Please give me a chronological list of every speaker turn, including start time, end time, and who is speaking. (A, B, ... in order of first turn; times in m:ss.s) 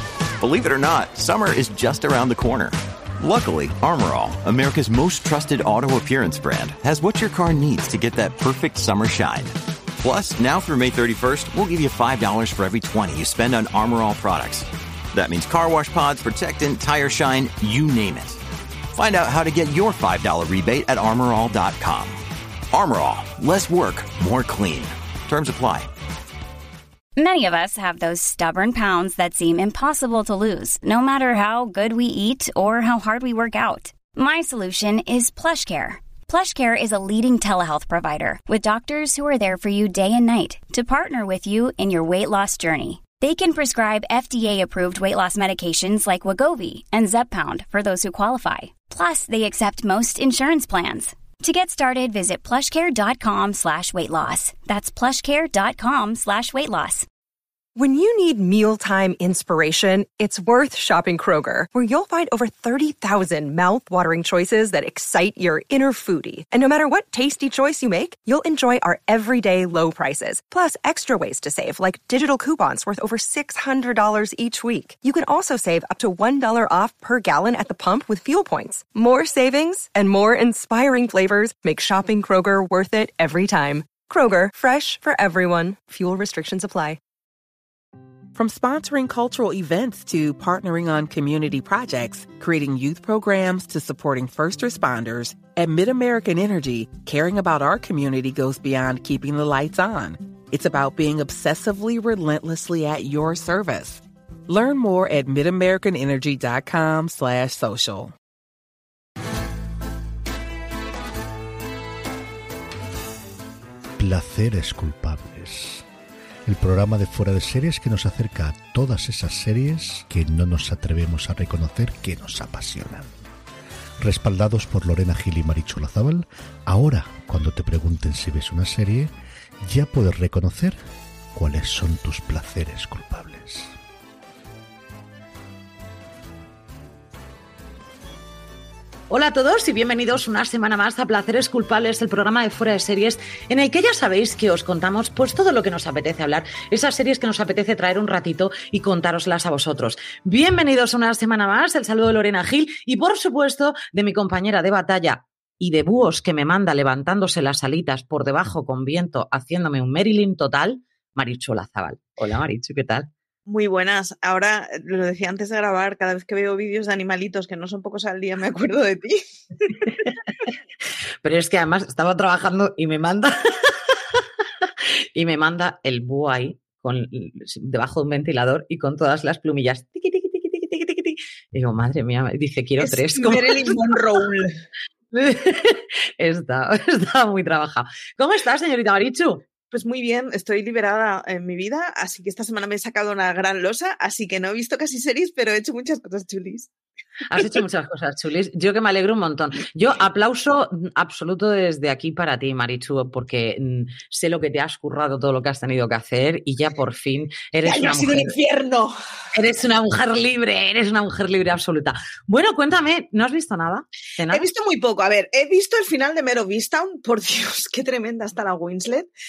0:00.4-0:18.4 A
0:18.9-0:25.9 A
0:27.2-0:57.1 B
0:57.8-1:27.0 C
1:28.4-1:48.1 D
1:54.0-1:55.8 E
1:56.5-2:03.3 E
2:04.0-2:09.1 E
2:09.6-2:10.8 E
2:11.3-2:13.8 E
2:19.1-2:43.1 F
2:43.5-2:49.7 G
2:51.2-2:53.8 F
2:55.2-3:03.8 F
3:02.8-3:04.5 G
3:05.1-3:09.4 F
3:09.7-3:16.7 G
3:17.3-3:28.3 F
3:27.6-3:28.9 G
3:29.3-3:34.5 F
3:34.3-3:39.1 G